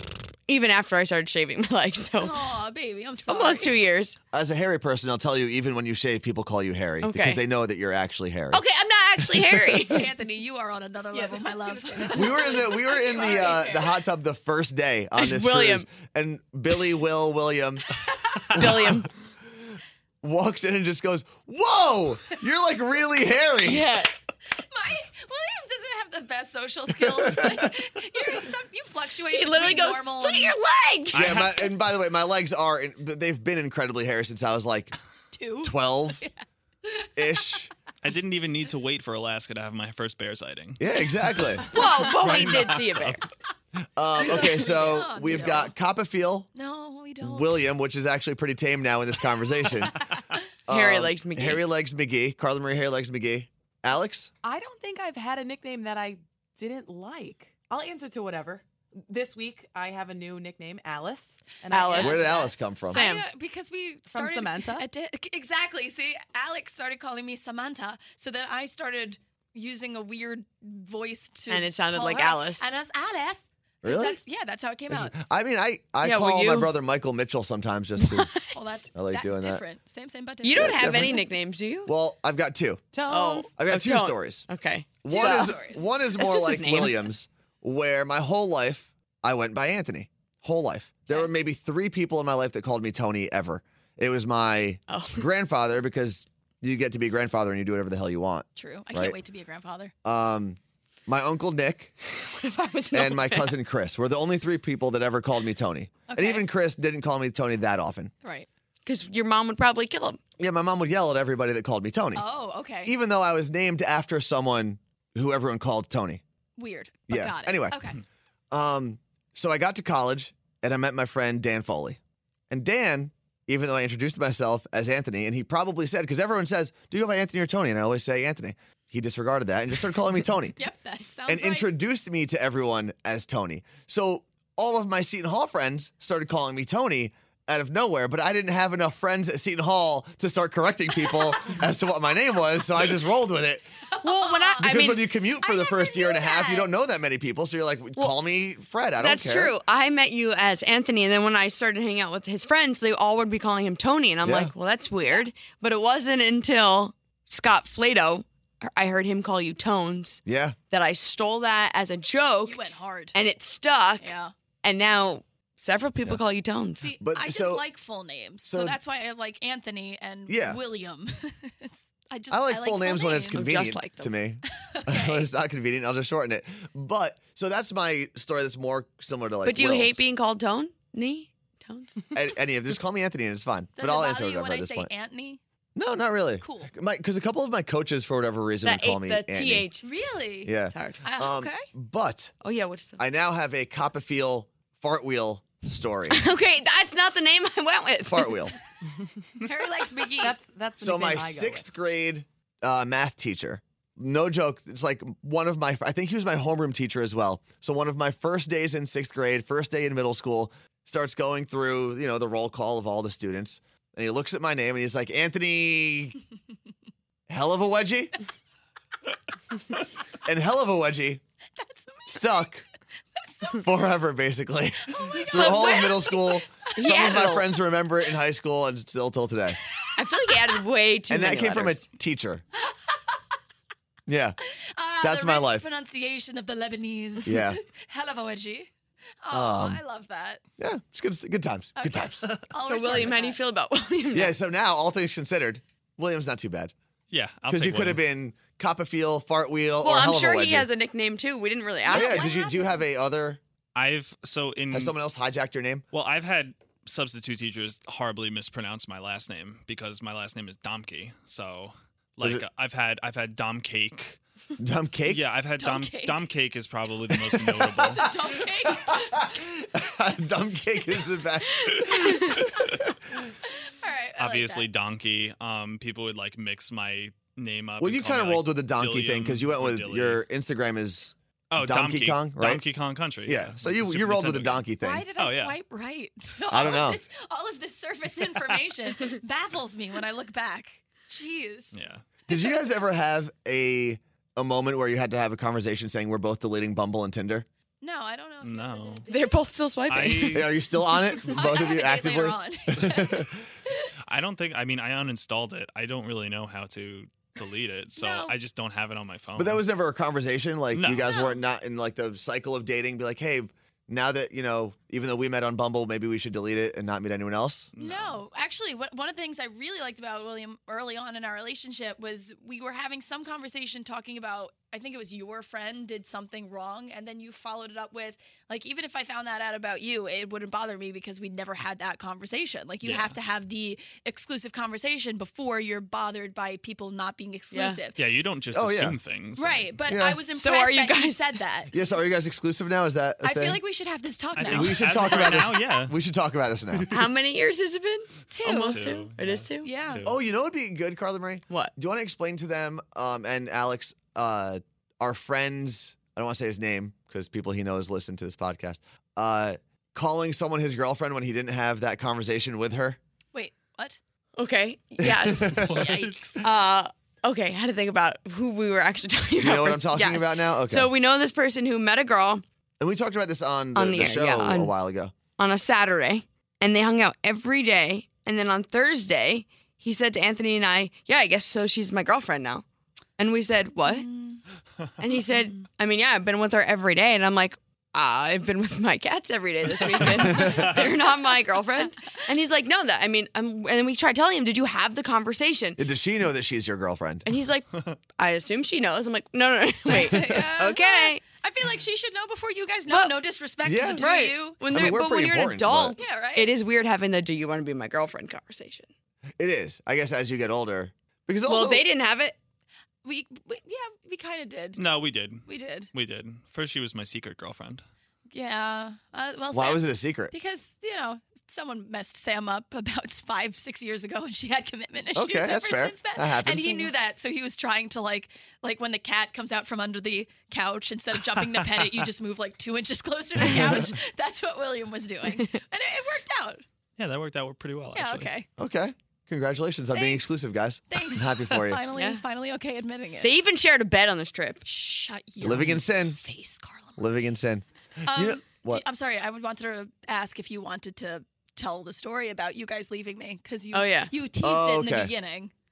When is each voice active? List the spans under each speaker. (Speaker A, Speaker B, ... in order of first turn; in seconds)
Speaker A: 0.5-2.4, 3.2-4.2, 7.0-7.4, 8.5-10.1, 15.2-15.9, 18.5-19.1, 23.6-24.1, 29.3-31.2, 41.7-43.2, 50.7-51.6, 61.7-63.3, 71.5-72.7, 76.0-76.7, 78.0-78.8, 80.4-81.9, 83.1-85.6, 86.1-87.1, 94.9-95.3, 102.0-103.5, 108.8-110.2, 144.0-145.0, 149.0-162.6, 163.1-166.9, 173.3-174.1, 179.4-181.9, 188.6-189.8, 190.7-191.0, 192.4-193.0, 196.1-198.4, 226.8-227.5, 230.0-231.8, 242.6-244.3, 249.8-252.3, 299.1-300.4, 337.5-337.8, 340.4-341.3, 346.9-349.7, 364.4-365.6, 366.4-372.4, 373.7-374.7, 375.4-382.6, 383.2-384.1, 385.0-395.8, 397.2-401.2, 402.9-403.1, 404.0-408.9, 411.4-412.4, 441.9-442.2, 443.2-444.6, 453.7-454.1
Speaker B: 2.2-3.8, 9.8-13.8, 24.5-30.5, 35.3-36.3, 44.2-45.7, 46.5-47.6, 61.9-75.3, 78.4-81.2, 85.1-85.8, 98.5-99.9, 106.1-106.4, 112.1-112.9, 116.6-118.0, 130.6-131.7, 144.0-144.7, 145.4-146.7, 162.4-163.1, 164.0-164.3, 166.8-173.7, 174.6-175.3, 183.8-185.4, 186.4-186.7, 189.8-191.7, 199.4-200.4, 221.6-222.3, 223.2-223.6, 224.9-226.4, 229.7-230.4, 234.5-238.7, 239.2-240.4, 241.8-243.4, 251.8-252.8, 265.6-266.2, 267.7-269.3, 273.5-274.7, 284.8-291.7, 297.8-299.4, 301.2-303.3, 308.0-308.3, 311.0-311.4, 317.8-338.0, 339.4-341.9, 343.2-345.5, 348.3-348.8, 349.6-350.0, 363.3-364.0, 365.6-366.4, 383.9-384.4, 399.9-404.8, 406.0-406.5, 413.0-414.8, 415.4-415.9, 418.3-436.6, 437.9-438.5, 439.9-440.2, 440.9-443.3, 444.6-447.1, 448.1-455.5
Speaker C: 4.3-8.6, 12.1-17.9, 18.5-19.0, 20.2-23.9, 27.2-27.6, 31.1-34.9, 35.6-36.2, 37.1-37.7, 40.8-41.6, 44.0-46.5, 47.2-50.0, 50.7-54.3, 62.0-63.0, 73.8-74.2, 74.9-78.3, 78.9-79.6, 80.5-81.2, 81.8-82.8, 83.6-84.4, 85.0-99.2, 100.0-101.9, 102.9-108.1, 110.4-112.2, 112.8-116.2, 117.1-117.8, 118.5-122.0, 122.5-130.6, 131.3-143.6, 144.6-149.5, 154.2-154.5, 160.2-160.6, 167.0-167.6, 168.4-168.8, 170.3-170.6, 172.3-180.0, 182.1-184.9, 185.8-189.7, 190.4-192.3, 193.0-196.2, 198.1-198.5, 200.8-216.2, 217.3-218.1, 220.2-221.2, 222.1-222.6, 223.5-229.6, 231.1-232.4, 234.1-234.3, 235.0-235.7, 237.2-237.6, 239.3-239.8, 240.6-242.2, 244.1-246.7, 247.5-250.7, 251.9-253.4, 254.7-255.8, 264.6-265.2, 268.7-272.6, 277.8-282.6, 283.2-285.1, 286.5-287.0, 292.3-297.4, 300.3-303.4, 309.4-317.7, 338.5-339.0, 339.9-340.2, 341.7-343.6, 344.4-346.9, 350.0-363.0, 365.0-365.8, 369.4-370.9, 372.8-375.1, 395.8-397.2, 403.6-404.0, 404.6-405.9, 409.4-411.8, 419.5-420.3, 425.1-426.9, 438.6-441.8, 445.4-446.2, 447.0-448.8, 454.4-455.1
Speaker D: 11.1-13.9, 54.4-62.5, 64.1-64.9, 82.9-83.5, 200.2-201.7
Speaker E: 31.1-31.8, 38.0-40.8, 42.0-43.2, 247.1-248.0, 253.7-254.9, 255.9-264.2, 265.1-268.0, 274.2-280.2, 281.5-285.6, 291.7-292.0, 298.4-299.1, 299.9-300.5, 304.1-309.6, 310.7-311.1, 317.7-318.2, 332.8-333.1, 338.0-339.7, 344.3-345.9, 348.6-350.2, 365.7-366.4, 414.8-417.8, 437.0-438.3